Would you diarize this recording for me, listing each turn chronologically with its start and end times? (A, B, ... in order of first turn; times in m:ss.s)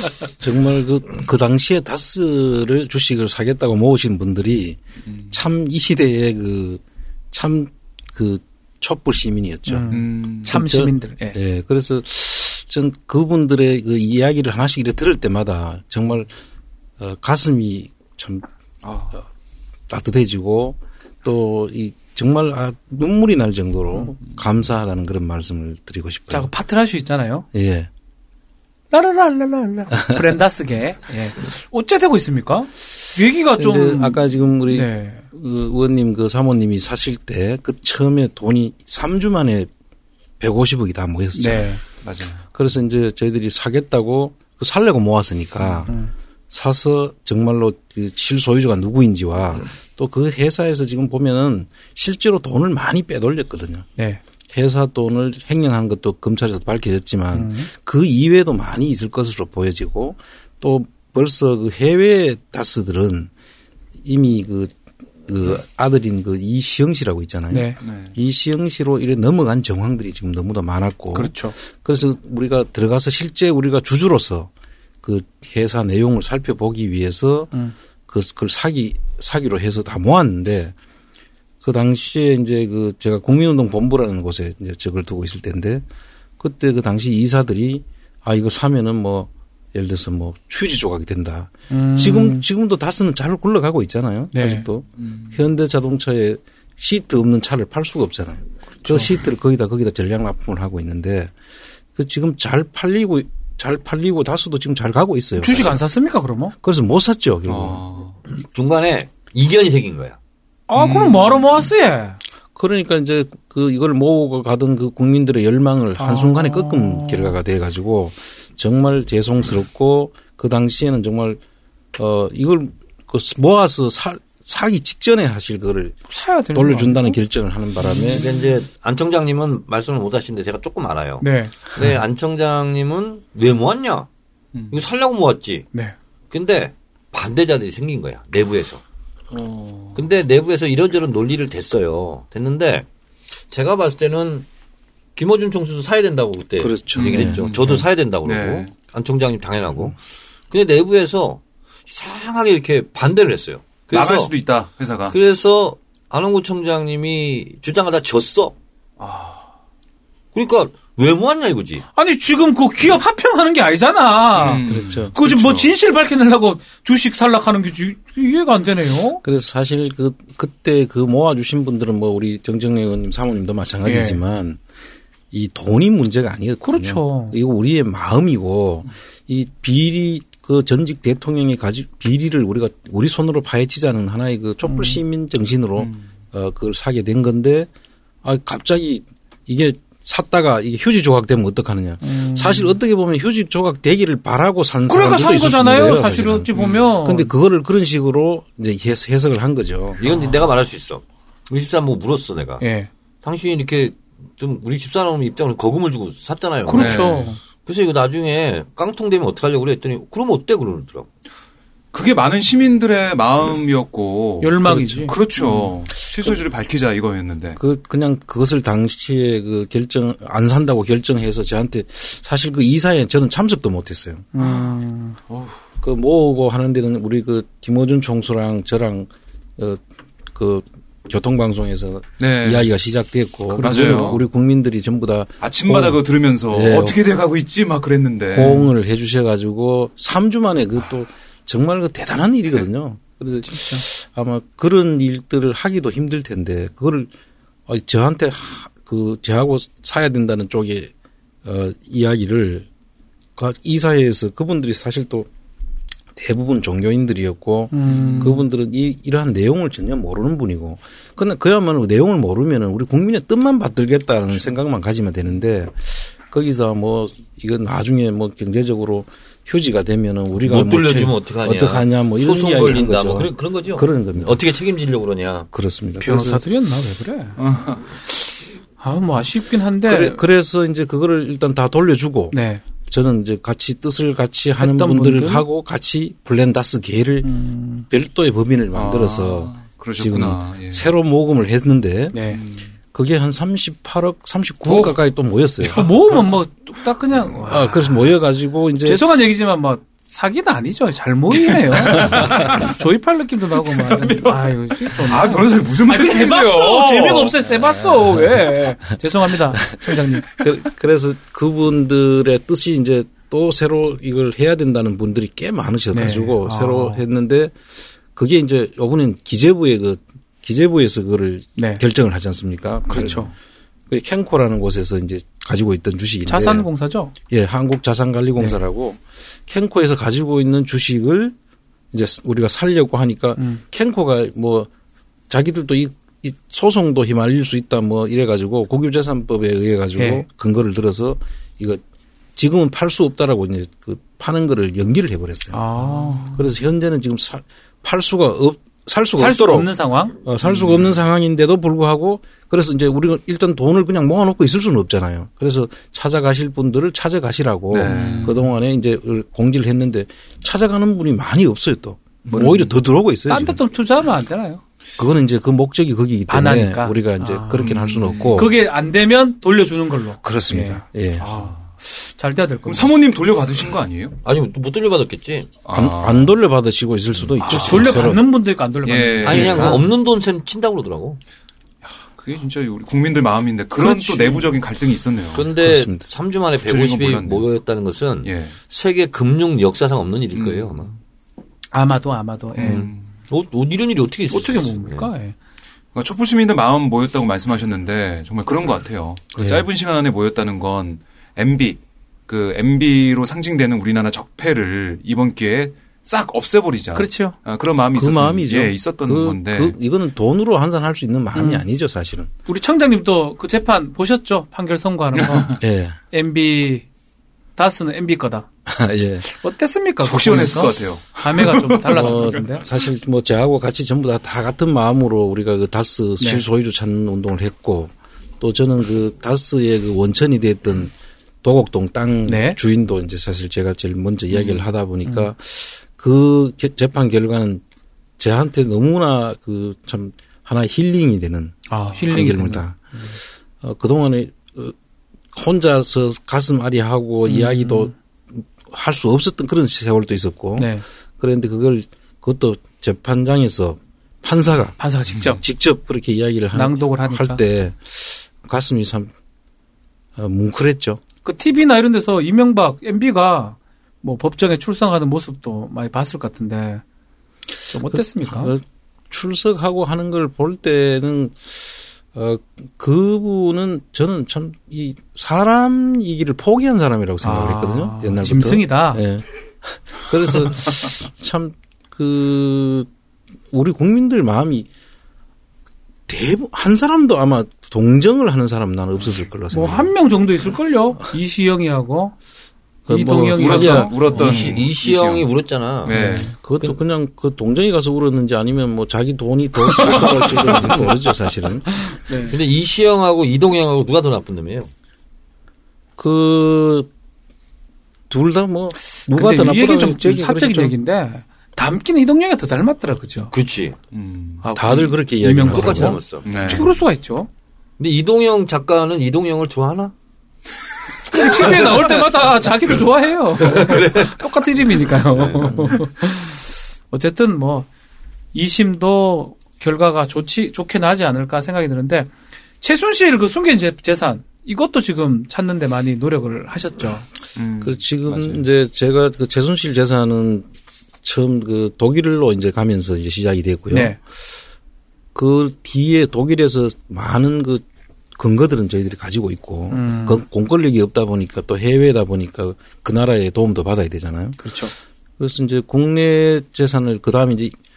0:00.4-0:04.8 A
0:05.3-0:06.8 A
0:07.3-0:16.3 A
0:09.7-0:11.4 B
0:09.9-0:10.5 C
0:17.0-0:18.5 A
0:18.8-0:19.2 C
0:19.9-0:26.5 A
0:26.3-0:27.5 B
0:27.5-0:27.9 A
0:28.9-0:35.2 B
0:33.6-0:39.7 A
0:40.4-0:41.7 A
0:41.3-0:41.8 B
0:42.0-0:42.4 C
0:42.5-0:45.9 A
0:45.6-0:45.9 C
0:45.9-0:46.1 B
0:46.5-0:53.9 A
0:54.0-0:54.2 B
0:54.5-1:03.3 A
0:57.3-0:57.7 B
1:04.0-1:14.5 A
1:07.5-1:07.8 B
1:07.8-1:08.1 C
1:11.1-1:11.6 B
1:15.0-1:17.5 A
1:18.1-1:20.8 A
1:21.6-1:25.8 A
1:26.4-1:41.3 A
1:31.7-1:32.4 B
1:34.3-1:34.7 B
1:35.0-1:35.3 C
1:38.8-1:39.1 B
1:42.0-1:45.8 A
1:45.4-1:46.5 B
1:46.6-1:47.8 A
1:47.5-1:48.2 C
1:48.4-1:50.2 D
1:50.7-1:52.2 B
1:50.8-1:51.7 C
1:52.5-2:01.4 A
1:56.0-1:57.4 B
2:02.0-2:06.0 A
2:06.1-2:07.2 B
2:06.5-2:08.3 A
2:07.8-2:08.4 B
2:08.0-2:14.1 D
2:11.2-2:11.6 B
2:14.7-2:15.7 D
2:16.3-2:18.8 D
2:19.3-2:20.0 C
2:20.0-2:22.9 D
2:23.5-2:24.5 D
2:25.2-2:30.0 D
2:26.6-2:27.8 A
2:27.0-2:28.7 C
2:30.5-2:34.3 D
2:33.9-2:35.2 C
2:35.1-2:38.6 D
2:39.0-2:39.4 C
2:40.4-2:41.8 D
2:42.0-2:49.2 B
2:44.4-2:45.1 C
2:44.6-2:45.7 A
2:49.2-2:54.6 A
2:53.8-2:54.2 B
2:55.3-3:07.7 A
2:56.6-2:57.4 B
3:04.6-3:05.0 B
3:05.8-3:06.1 C
3:08.2-3:20.0 A
3:12.0-3:12.8 B
3:14.9-3:17.3 B
3:16.5-3:16.8 C
3:20.0-3:22.6 D
3:20.0-3:20.4 B
3:22.6-3:22.9 B
3:23.2-3:31.1 D
3:26.7-3:27.4 B
3:26.7-3:27.3 C
3:31.9-3:37.6 C
3:34.4-3:35.2 B
3:34.6-3:35.7 A
3:37.6-3:44.3 A
3:44.3-3:45.2 B
3:45.3-3:45.6 C
3:45.8-3:57.0 A
3:52.2-3:52.7 C
3:53.5-3:54.2 B
3:53.6-3:54.2 C
3:55.4-3:58.7 C
3:58.3-4:07.1 A
4:03.5-4:03.8 B
4:07.7-4:10.9 A
4:11.4-4:12.7 A
4:13.4-4:15.3 A
4:16.2-4:34.4 A
4:17.7-4:18.5 B
4:17.9-4:18.3 C
4:30.4-4:35.5 D
4:35.5-4:36.4 A
4:36.0-4:37.4 B
4:37.4-4:37.9 C
4:38.8-4:40.2 B
4:39.8-4:42.4 A
4:42.3-4:42.6 B
4:42.9-4:47.3 A
4:44.6-4:45.4 B
4:47.2-4:47.9 B
4:47.9-4:52.2 A
4:48.7-4:50.9 C
4:52.1-4:52.4 B
4:52.3-4:52.7 C
4:52.9-4:56.0 A
4:54.7-4:55.0 C
4:55.6-4:57.9 B
4:57.4-4:59.1 A
4:58.8-5:10.4 B
5:01.7-5:02.7 C
5:01.8-5:02.4 A
5:03.8-5:07.4 C
5:07.6-5:08.3 A
5:10.2-5:17.5 A
5:15.9-5:17.0 B
5:18.2-5:23.3 A
5:21.6-5:21.8 B
5:22.9-5:23.3 C
5:22.9-5:23.3 B
5:23.9-5:26.7 A
5:26.3-5:27.1 B
5:27.3-5:31.4 A
5:31.9-5:34.7 A
5:33.4-5:33.6 B
5:35.3-5:41.8 A
5:40.0-5:40.2 B
5:42.4-5:49.7 A
5:45.5-5:46.4 B
5:49.2-5:50.2 B
5:50.2-6:03.6 A
5:50.4-5:51.0 C
5:57.7-5:58.5 C
5:57.9-5:58.4 B
6:02.2-6:02.8 C
6:03.3-6:04.6 B
6:05.0-6:08.6 A
6:06.3-6:11.5 B
6:07.6-6:08.5 C
6:10.2-6:11.3 A
6:11.2-6:11.7 C
6:12.0-6:13.0 B
6:12.7-6:14.2 C
6:14.2-6:15.6 D
6:15.6-6:16.3 C
6:15.7-6:18.2 A
6:17.2-6:18.2 C
6:17.5-6:19.8 B
6:18.8-6:19.9 C
6:19.2-6:21.2 D
6:21.9-6:25.5 C
6:23.8-6:24.5 B
6:25.3-6:30.9 D
6:25.6-6:26.0 A
6:26.6-6:27.4 C
6:28.2-6:28.6 C
6:30.3-6:30.9 C
6:31.7-6:32.9 B
6:32.6-6:33.0 C
6:32.6-6:35.1 D
6:34.3-6:35.4 B
6:36.0-6:49.8 C
6:39.4-6:39.7 A
6:47.0-6:47.4 B
6:47.9-6:52.3 A
6:51.3-6:51.7 B
6:52.5-6:55.6 B
6:55.1-6:55.6 C
6:55.6-6:56.0 A
6:56.1-6:56.9 B
6:57.6-6:58.5 B
6:58.7-6:59.3 A
6:59.2-7:02.6 B
7:00.0-7:02.4 C
7:01.9-7:17.6 A
7:06.2-7:06.4 B
7:12.3-7:12.6 B
7:14.3-7:14.6 C
7:18.2-7:22.9 A
7:21.7-7:23.2 B
7:23.6-7:24.8 A
7:25.3-7:39.1 A
7:27.3-7:27.9 B
7:30.6-7:30.8 B
7:34.8-7:35.4 B
7:36.5-7:37.4 B
7:40.2-7:41.0 A
7:41.2-7:46.8 B
7:47.7-7:48.5 B
7:47.9-8:02.9 A
7:57.2-7:59.0 B
8:03.5-8:04.7 A
8:06.1-8:09.9 A
8:09.5-8:12.2 B
8:12.9-8:14.0 A
8:12.9-8:14.6 B
8:13.4-8:15.2 C
8:14.1-8:15.9 D
8:15.8-8:16.3 C
8:15.9-8:16.3 B
8:16.0-8:21.9 A
8:19.6-8:20.7 B
8:20.1-8:20.8 C
8:21.8-8:22.4 B
8:22.3-8:24.7 D
8:26.0-8:26.9 A
8:28.1-8:30.7 A
8:28.9-8:33.3 B
8:33.3-8:33.8 D
8:33.9-8:34.4 C
8:34.4-8:37.3 B
8:34.6-8:36.0 A
8:35.4-8:36.6 D
8:36.2-8:36.7 C
8:37.8-8:39.9 D
8:41.1-8:47.7 B
8:41.1-8:42.3 D
8:43.4-8:44.2 D
8:45.1-8:45.8 D
8:48.3-8:57.1 B
8:57.4-8:58.4 C
8:57.6-9:00.5 A
9:01.0-9:04.0 A
9:03.7-9:04.0 B
9:05.2-9:07.6 A
9:08.2-9:14.4 A
9:09.7-9:10.2 B
9:14.4-9:14.7 B
9:15.2-9:17.5 A